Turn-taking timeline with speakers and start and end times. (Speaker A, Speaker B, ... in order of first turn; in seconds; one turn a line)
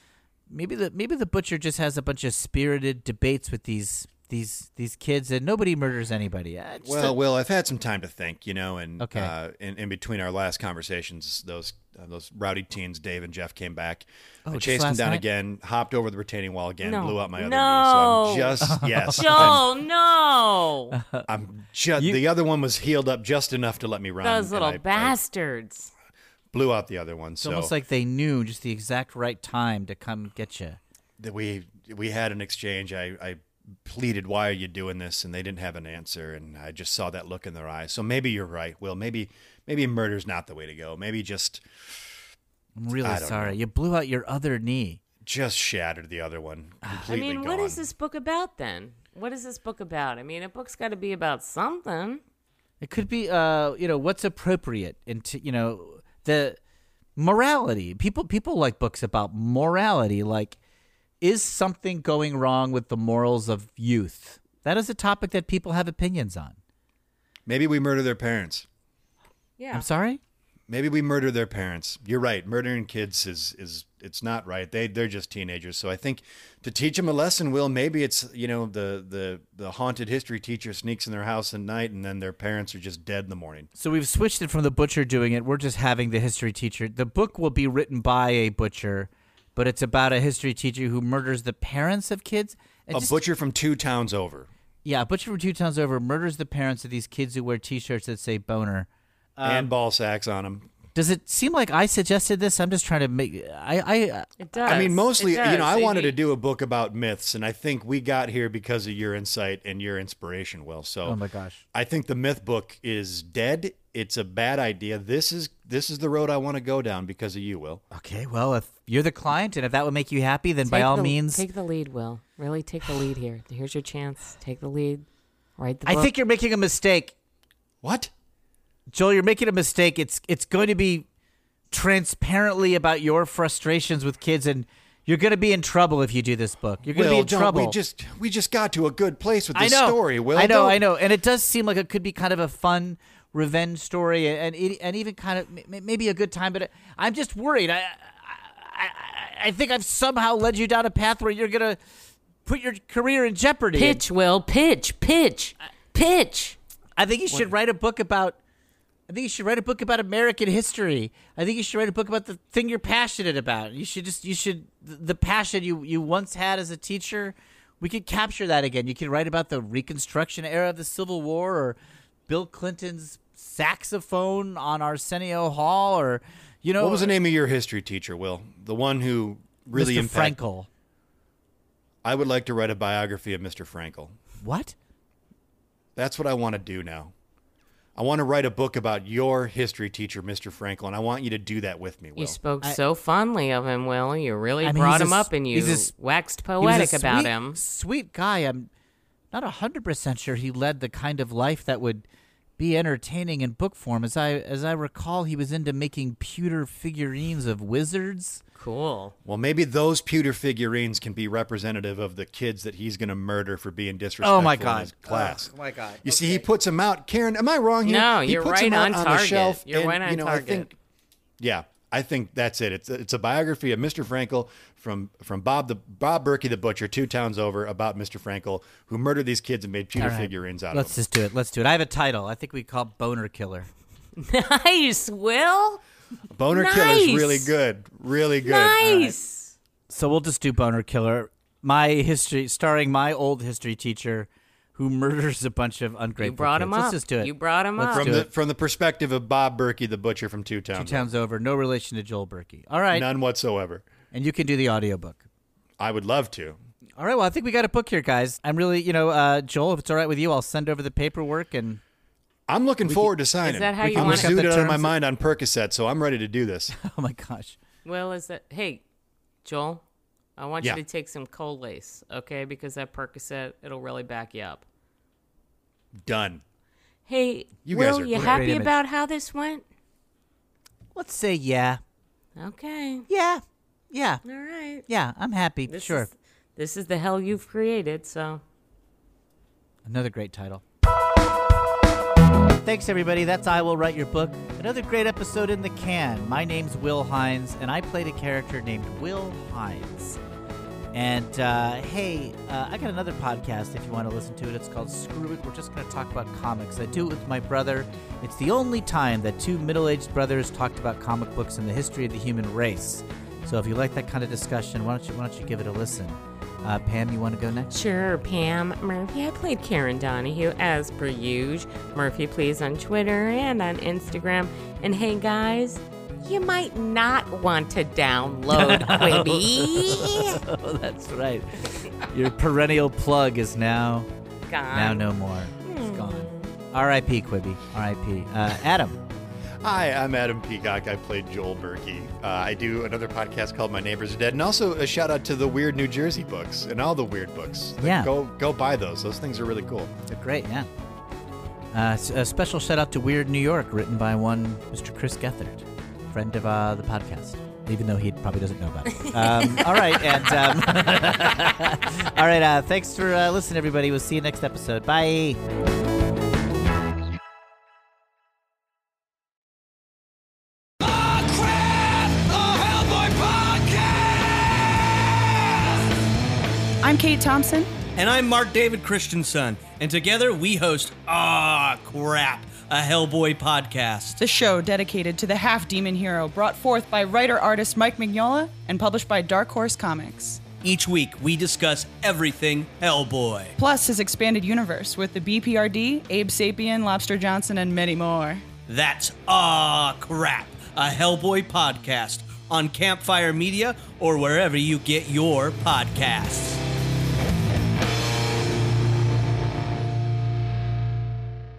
Speaker A: 0.5-7.2
Speaker B: 6.8-19.6
Speaker A: 9.0-9.3
Speaker A: 14.4-15.2
Speaker C: 16.8-21.0
Speaker A: 18.6-19.6
Speaker A: 20.9-21.3
Speaker B: 21.3-25.2
Speaker C: 24.2-25.9
Speaker B: 26.5-27.7
Speaker A: 27.4-30.8
Speaker B: 31.2-41.6
Speaker A: 42.8-45.0
Speaker B: 43.0-43.5
Speaker B: 45.2-47.8
Speaker A: 46.8-47.1
Speaker C: 47.0-52.2
Speaker A: 52.8-56.6
Speaker A: 57.2-60.6
Speaker A: 61.2-66.6
Speaker B: 67.5-68.7
Speaker C: 69.6-69.9
Speaker A: 69.7-70.2
Speaker B: 70.7-83.7
Speaker A: 83.7-93.2
Speaker B: 92.9-94.5
Speaker A: 94.8-99.7
Speaker B: 99.4-100.7
Speaker A: 100.9-104.3
Speaker C: 104.4-106.2
Speaker B: 104.6-111.2
Speaker A: 111.0-111.6
Speaker B: 111.7-117.8
Speaker A: 117.9-121.4
Speaker C: 120.6-125.0
Speaker C: 125.6-126.1
Speaker A: 125.8-127.1
Speaker B: 127.8-128.1
Speaker A: 128.9-131.1
Speaker A: 131.7-137.8
Speaker B: 136.8-140.8
Speaker A: 139.5-151.8
Speaker A: 152.4-154.0
Speaker C: 153.7-156.6
Speaker A: 157.0-158.4
Speaker A: 159.1-171.8
Speaker A: 172.3-177.1
Speaker B: 176.8-180.4
Speaker A: 179.7-180.7
Speaker B: 182.0-184.2
Speaker A: 184.4-184.7
Speaker B: 185.9-187.1
Speaker B: 187.9-192.4
Speaker C: 192.2-197.6
Speaker A: 194.6-195.9
Speaker A: 196.6-198.7
Speaker A: 199.3-202.0
Speaker A: 202.6-208.4
Speaker C: 208.6-209.1
Speaker B: 209.2-215.5
Speaker A: 214.2-216.4
Speaker B: 216.0-220.7
Speaker C: 217.8-220.7
Speaker B: 221.4-230.9
Speaker A: 229.9-233.7
Speaker C: 234.2-235.8
Speaker B: 236.3-239.2
Speaker C: 236.5-237.5
Speaker C: 238.4-239.5
Speaker A: 239.9-248.3
Speaker C: 246.2-248.2
Speaker B: 247.9-251.1
Speaker A: 250.7-253.1
Speaker B: 252.9-253.9
Speaker A: 254.1-255.2
Speaker B: 255.8-256.6
Speaker A: 257.0-261.8
Speaker B: 262.5-266.7
Speaker A: 262.8-263.1
Speaker C: 263.4-264.4
Speaker A: 263.8-264.9
Speaker A: 266.7-267.6
Speaker C: 267.8-268.8
Speaker C: 269.4-269.8
Speaker C: 270.4-274.6
Speaker B: 275.9-276.4
Speaker C: 277.1-279.6
Speaker B: 277.6-278.4
Speaker A: 278.1-278.8
Speaker A: 280.9-281.8
Speaker C: 282.4-283.1
Speaker A: 283.1-284.2
Speaker C: 284.2-284.9
Speaker A: 284.9-286.1
Speaker C: 285.7-288.4
Speaker A: 289.8-290.6
Speaker A: 292.6-300.2
Speaker A: 300.9-317.7
Speaker C: 317.7-330.4
Speaker A: 328.5-334.1
Speaker C: 334.5-335.1
Speaker A: 334.7-339.0
Speaker C: 335.6-336.5
Speaker B: 339.6-349.9
Speaker A: 347.8-348.1
Speaker A: 350.1-350.7
Speaker A: 351.7-365.4
Speaker C: 359.0-360.0
Speaker D: 370.8-375.9
Speaker E: 376.8-377.7
Speaker D: 377.9-384.2
Speaker E: 384.2-390.4
Speaker D: 390.6-393.6
Speaker E: 393.6-398.4
Speaker D: 398.7-406.6